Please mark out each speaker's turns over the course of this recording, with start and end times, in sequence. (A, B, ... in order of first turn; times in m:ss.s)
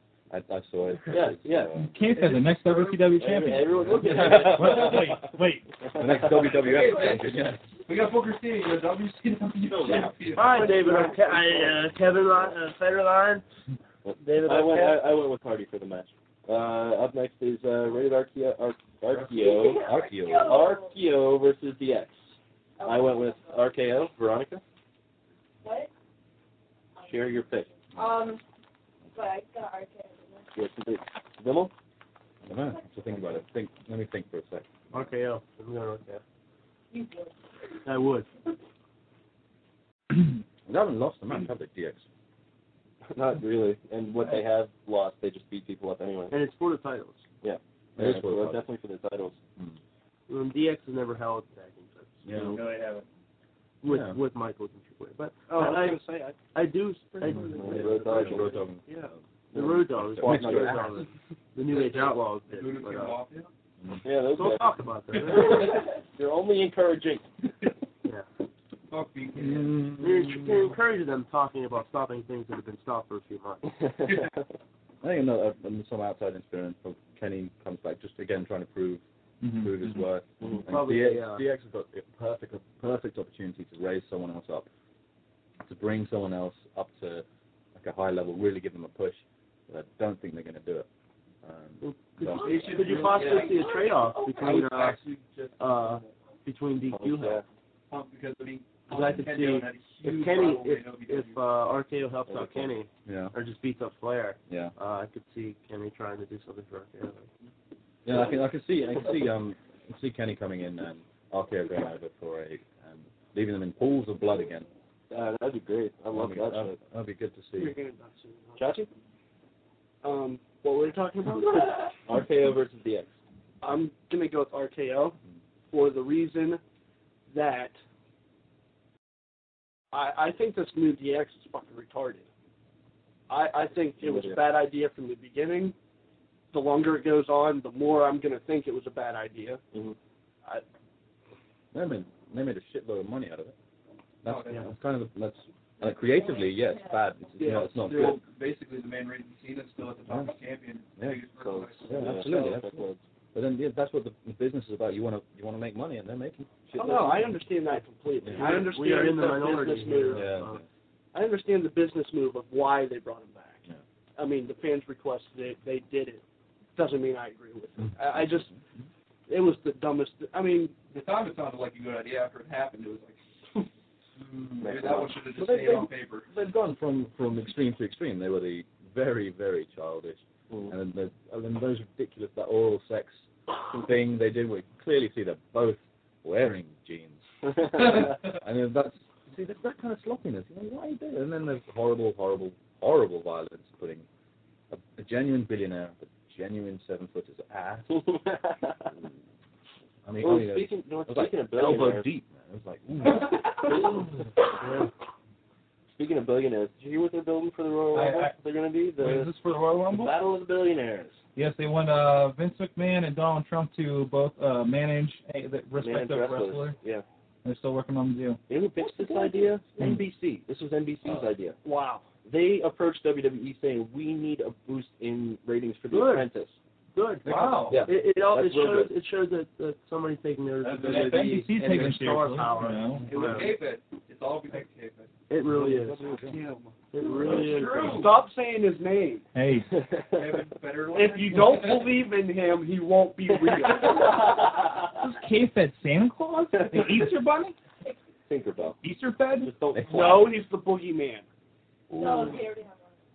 0:00.3-0:01.9 A
0:01.1-0:01.8 B
0:01.8-0:05.7 C
0:03.1-0:05.2 B
0:03.9-0:05.0 A
0:05.9-0:06.6 B
0:06.0-0:07.6 A
0:06.4-0:07.2 D
0:07.9-0:11.0 D
0:10.4-0:13.4 E
0:10.4-0:11.3 F
0:14.0-0:19.8 B
0:14.2-0:15.0 E
0:19.3-0:20.9 G
0:19.8-0:20.6 A
0:20.4-0:24.6 B
0:22.8-0:23.5 G
0:25.6-0:25.9 G
0:27.0-0:27.7 B
0:27.9-0:28.4 G
0:29.1-0:30.5 G
0:30.5-0:31.7 B
0:32.4-0:34.7 A
0:34.9-0:36.2 E
0:36.9-0:37.3 G
0:37.8-0:38.3 E
0:40.6-0:42.0 A
0:43.1-0:46.4 B
0:46.3-0:47.2 E
0:47.4-0:49.4 B
0:48.0-0:48.6 A
0:50.3-0:52.2 E
0:52.2-0:52.6 A
0:52.4-0:53.0 C
0:53.8-1:03.1 E
0:53.8-0:54.2 A
0:55.5-0:56.3 F
0:57.5-0:58.5 B
0:57.6-0:59.1 A
0:59.5-1:00.8 B
1:00.0-1:01.1 A
1:01.7-1:03.5 D
1:04.0-1:04.7 B
1:04.3-1:05.7 E
1:05.3-1:07.2 B
1:08.9-1:09.8 D
1:09.4-1:10.7 A
1:10.0-1:13.8 E
1:15.0-1:19.0 A
1:19.4-1:20.0 C
1:19.6-1:24.7 A
1:20.6-1:21.4 E
1:25.6-1:27.2 A
1:27.8-1:30.9 A
1:31.4-1:32.7 A
1:31.8-1:35.0 E
1:32.3-1:34.6 G
1:32.4-1:33.7 D
1:34.4-1:36.1 D
1:35.6-1:37.4 E
1:36.9-1:37.4 B
1:37.9-1:41.4 D
1:38.9-1:47.3 E
1:42.3-1:42.8 B
1:43.0-1:43.3 A
1:48.0-1:54.7 A
1:55.1-1:56.8 B
1:56.1-1:57.7 A
1:57.6-1:58.7 F
1:58.6-1:58.9 B
2:00.0-2:01.7 F
2:02.0-2:03.1 B
2:03.6-2:05.2 F
2:05.7-2:06.6 F
2:07.3-2:07.8 F
2:09.9-2:12.3 F
2:13.3-2:15.7 F
2:14.0-2:14.4 B
2:16.5-2:19.6 F
2:21.7-2:23.5 A
2:24.2-2:28.2 A
2:24.2-2:24.7 D
2:26.2-2:27.0 G
2:27.4-2:32.5 D
2:31.4-2:33.0 B
2:31.9-2:37.4 A
2:36.8-2:40.4 F
2:38.4-2:38.7 D
2:38.4-2:40.6 E
2:40.1-2:40.6 A
2:41.1-2:43.6 F
2:44.2-2:46.2 F
2:46.8-2:48.5 F
2:47.8-2:48.6 A
2:49.3-2:50.8 F
2:50.9-2:53.2 D
2:54.6-2:56.3 D
2:54.6-2:55.1 B
2:55.3-3:14.0 A
3:14.7-3:18.0 A
3:17.9-3:18.9 B
3:20.0-3:24.1 A
3:20.2-3:22.1 B
3:23.6-3:24.0 B
3:26.0-3:29.3 B
3:27.9-3:28.4 C
3:29.0-3:30.2 C
3:29.9-3:31.2 B
3:31.4-3:36.8 C
3:35.8-3:37.0 B
3:37.4-3:38.4 C
3:38.5-3:41.6 B
3:41.6-3:42.0 F
3:42.2-3:46.6 B
3:45.9-3:46.3 E
3:46.9-3:53.5 E
3:47.3-3:47.8 C
3:48.3-3:48.9 B
3:50.6-3:53.1 C
3:53.1-3:55.1 D
3:55.3-3:56.0 E
3:55.6-3:56.2 B
3:56.2-3:58.1 D
3:56.9-3:58.1 E
3:57.8-3:59.2 F
3:59.3-3:59.8 C
3:59.8-4:00.2 B
4:00.1-4:01.9 D
4:00.9-4:04.3 F
4:04.9-4:07.5 C
4:08.3-4:08.8 B
4:08.8-4:09.5 C
4:09.4-4:10.3 B
4:09.7-4:10.3 A
4:09.9-4:11.2 F
4:11.9-4:12.4 A
4:12.0-4:12.9 G